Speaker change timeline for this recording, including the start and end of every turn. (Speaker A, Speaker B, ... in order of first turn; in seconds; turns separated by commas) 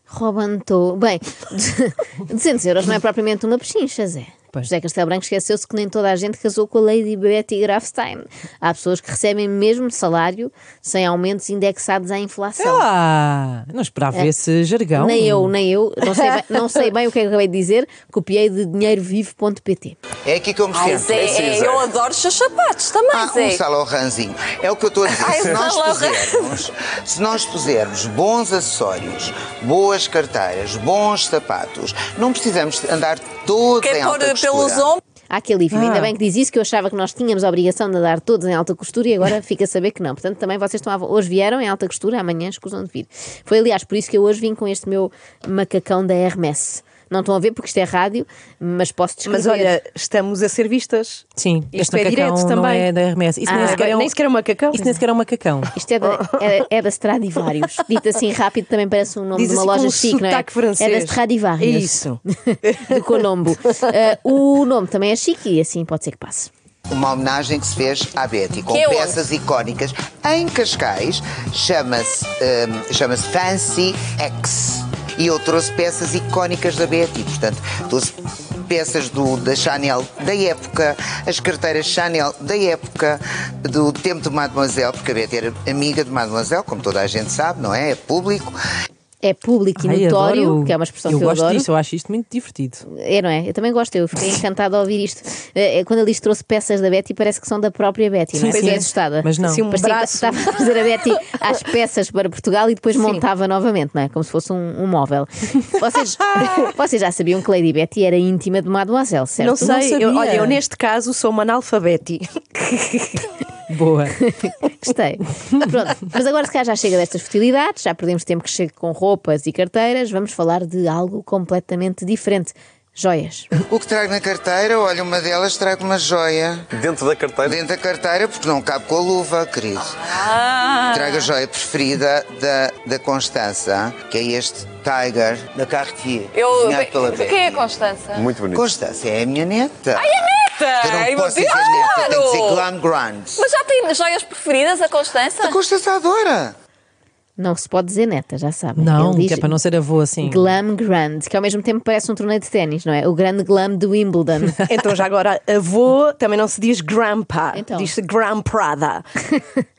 Speaker A: 0.1-12.9, Speaker B: 12.6-15.5, Speaker A: 15.0-20.0, Speaker C: 20.2-21.4, Speaker D: 20.7-23.6, Speaker E: 21.1-21.9, Speaker C: 23.1-34.9, Speaker D: 25.1-26.6, Speaker D: 33.8-35.0, Speaker A: 35.3-49.8, Speaker B: 35.7-36.1, Speaker F: 49.3-52.9, Speaker B: 51.4-54.2, Speaker A: 53.5-53.9, Speaker F: 53.5-55.0, Speaker B: 54.7-55.7, Speaker A: 55.7-66.5, Speaker F: 59.4-62.8, Speaker C: 66.9-88.6, Speaker D: 68.7-69.2, Speaker A: 89.2-91.7, Speaker B: 89.8-92.8, Speaker A: 92.9-109.7, Speaker B: 98.4-99.6, Speaker F: 98.5-98.8, Speaker F: 99.4-100.6, Speaker F: 109.4-113.2, Speaker B: 109.6-110.6, Speaker B: 113.7-114.2, Speaker A: 114.1-123.5, Speaker C: 123.7-126.7, Speaker E: 126.7-127.6, Speaker C: 127.4-130.1, Speaker D: 129.8-131.3, Speaker C: 130.9-137.7, Speaker D: 136.3-138.3, Speaker E: 138.1-138.7, Speaker C: 138.5-140.3, Speaker D: 139.9-142.7, Speaker C: 140.8-143.5, Speaker D: 143.4-145.6, Speaker C: 145.4-146.5, Speaker A: 147.4-149.6, Speaker B: 148.8-150.4, Speaker A: 150.2-154.6, Speaker F: 154.7-159.1, Speaker A: 157.5-157.9